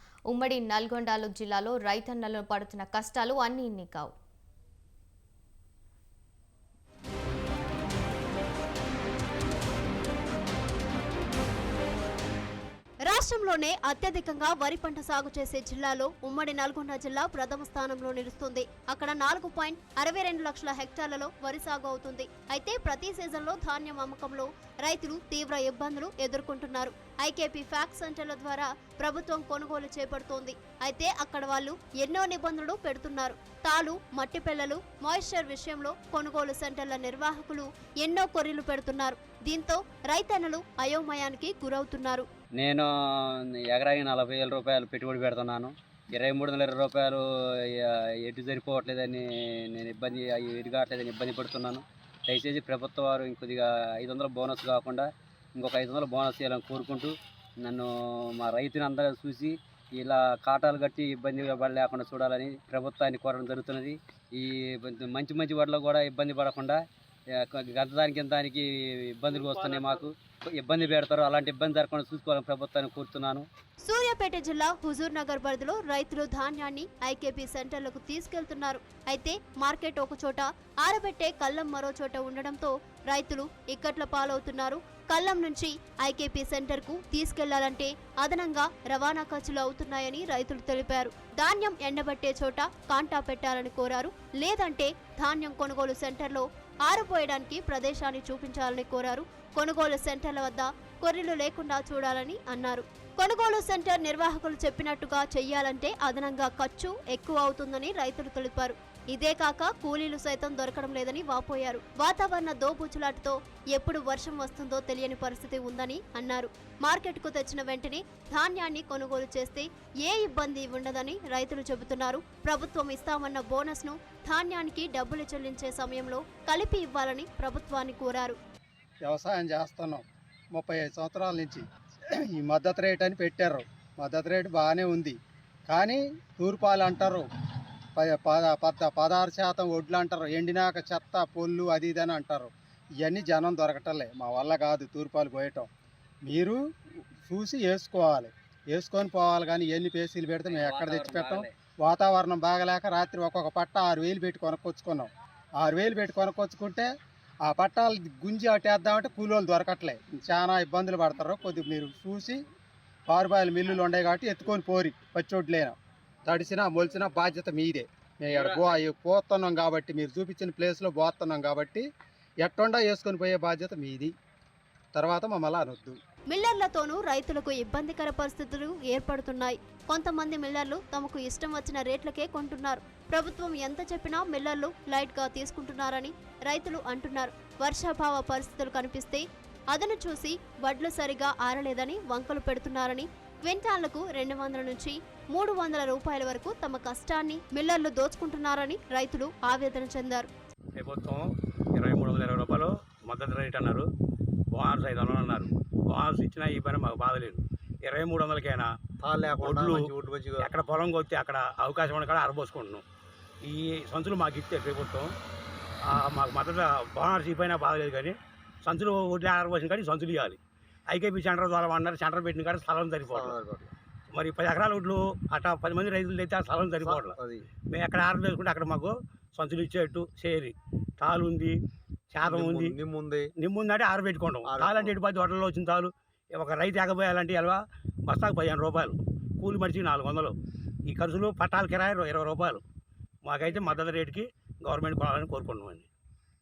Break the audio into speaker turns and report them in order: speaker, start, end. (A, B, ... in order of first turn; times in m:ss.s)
0:00.3-0:04.1 A
0:13.1-0:42.2 B
0:42.6-0:42.9 C
0:43.7-0:47.2 C
0:47.8-1:06.8 C
1:07.4-1:13.5 C
1:09.4-1:09.9 D
1:13.8-2:08.4 B
2:09.0-2:11.6 E
2:12.2-2:15.2 E
2:15.7-2:17.2 E
2:18.0-2:22.5 E
2:23.0-2:25.7 E
2:26.2-2:26.6 E
2:27.2-2:36.9 E
2:30.5-2:31.5 C
2:37.4-2:42.4 E
2:43.1-2:45.7 E
2:46.3-2:51.8 E
2:52.4-2:54.1 E
2:54.9-2:56.0 E
2:56.3-3:20.3 B
3:20.8-3:23.9 D
3:24.5-3:28.7 D
3:29.0-3:30.5 F
3:29.4-3:32.8 D
3:33.4-3:35.1 D
3:35.8-3:43.4 D
3:43.0-3:43.7 F
3:44.1-3:47.2 D
3:46.8-3:47.4 F
3:47.7-3:51.6 D
3:52.1-3:52.8 D
3:52.2-3:53.3 F
3:53.4-4:00.3 D
3:54.4-3:55.0 F
4:00.9-4:02.6 D
4:03.2-4:05.9 D